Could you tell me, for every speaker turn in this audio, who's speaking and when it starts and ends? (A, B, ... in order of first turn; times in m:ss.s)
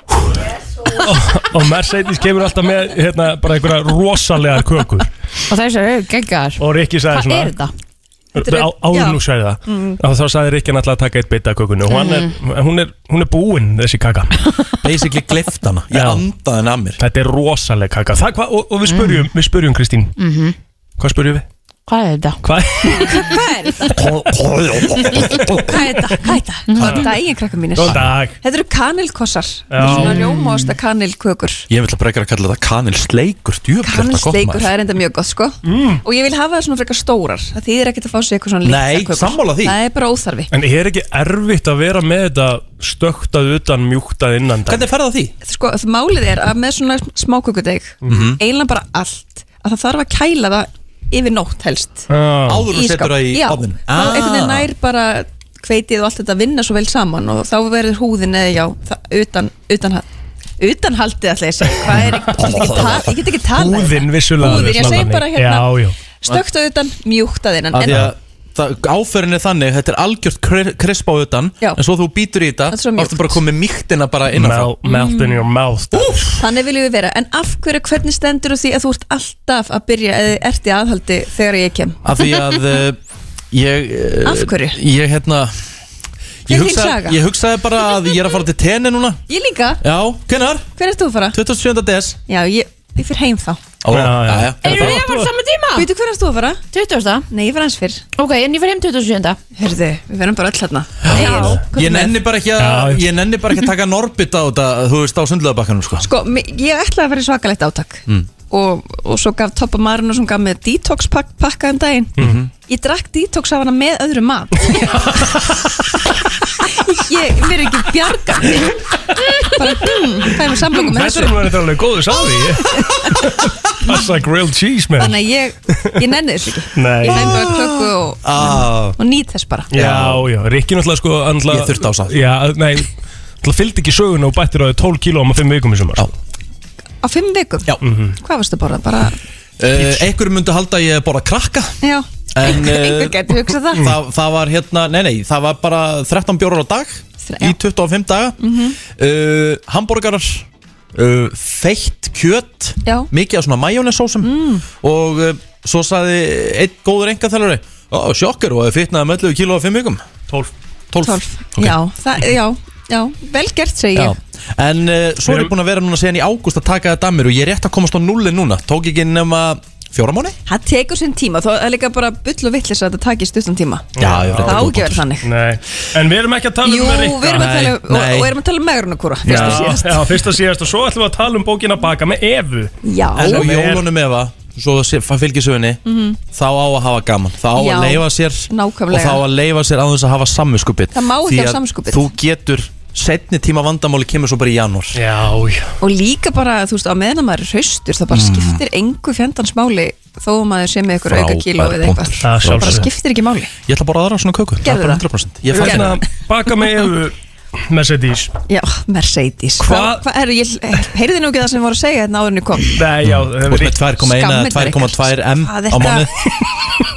0:00.9-0:05.1 A
0:05.5-0:07.7 B
0:06.6-0:07.5 A
0:08.4-0:10.0 C
0:08.4-0:14.4 A
0:11.9-0:12.3 B
0:14.8-0:17.0 D
0:15.9-0:16.2 A
0:17.0-0:20.2 A
0:18.9-0:19.2 B
0:20.2-0:20.6 B
0:21.0-0:21.4 A
0:21.9-0:22.4 B
0:22.4-0:23.3 A
0:22.9-0:23.9 C
0:23.9-0:25.7 D
0:25.5-0:31.7 C
0:26.7-0:27.0 B
0:26.8-0:27.1 A
0:27.8-0:28.4 A
0:29.7-0:30.2 A
0:29.8-0:30.7 B
0:31.7-0:34.7 D
0:33.8-0:40.5 C
0:35.7-0:36.0 A
0:38.6-0:39.8 D
0:40.5-0:44.9 A
0:44.7-0:45.3 D
0:45.4-0:52.1 C
0:48.1-0:48.4 D
0:52.1-0:52.7 A
0:52.5-0:54.7 D
0:52.7-1:00.1 C
1:00.6-1:08.1 C
1:02.6-1:02.9 D
1:03.5-1:06.0 A
1:07.7-1:14.8 D
1:12.7-1:13.4 C
1:14.3-1:16.4 A
1:14.9-1:15.4 C
1:15.9-1:16.3 D
1:16.4-1:22.0 C
1:22.0-1:23.0 D
1:23.5-1:25.5 D
1:24.2-1:24.8 C
1:26.5-1:29.2 D
1:26.5-1:27.2 C
1:29.3-1:29.8 C
1:29.8-1:30.7 D
1:30.8-1:31.4 C
1:31.3-1:32.2 D
1:32.3-1:33.6 C
1:33.8-1:35.0 D
1:33.9-1:35.3 A
1:34.6-1:35.9 B
1:35.7-1:36.6 C
1:36.7-1:37.3 B
1:37.3-1:38.0 C
1:38.2-1:39.4 B
1:39.6-1:42.2 C
1:41.0-1:46.1 D
1:41.3-1:41.6 A
1:42.6-1:43.0 A
1:46.0-1:55.0 C
1:52.2-1:52.5 D
1:54.7-1:55.4 A
1:56.7-1:58.8 C
1:59.4-2:01.5 C
2:00.7-2:05.2 A
2:02.8-2:03.1 C
2:05.0-2:09.7 C
2:06.8-2:07.5 A
2:07.1-2:09.0 D
2:09.7-2:12.9 A
2:09.7-2:10.2 D
2:11.5-2:12.2 D
2:13.4-2:16.1 A
2:17.0-2:19.2 C
2:17.8-2:18.2 A
2:19.6-2:21.8 D
2:21.8-2:23.8 C
2:22.3-2:40.0 D
2:27.2-2:27.6 C
2:28.4-2:28.8 C
2:34.2-2:34.7 C
2:40.9-2:41.7 D
2:41.0-2:44.2 C
2:44.0-2:50.4 D
2:45.3-2:45.5 A
2:50.5-2:55.3 C
2:54.0-2:57.6 A
2:54.0-2:55.0 D
2:56.6-3:00.2 C
2:57.3-2:58.4 D
2:59.2-3:03.9 A
2:59.3-2:59.6 D
3:02.8-3:03.5 C
3:03.2-3:05.8 D
3:05.8-3:06.2 C
3:06.3-3:15.0 D
3:07.5-3:09.2 C
3:10.9-3:12.1 C
3:14.9-3:15.7 A
3:15.8-3:23.5 C
3:18.1-3:18.6 D
3:21.0-3:22.9 D
3:22.2-3:22.9 A
3:23.7-3:26.0 D
3:24.6-3:25.0 C
3:25.5-3:27.2 A
3:27.7-3:28.3 A
3:28.5-3:32.8 C
3:29.6-3:30.0 A
3:32.7-3:33.8 A
3:33.0-3:36.1 D
3:34.0-3:36.1 C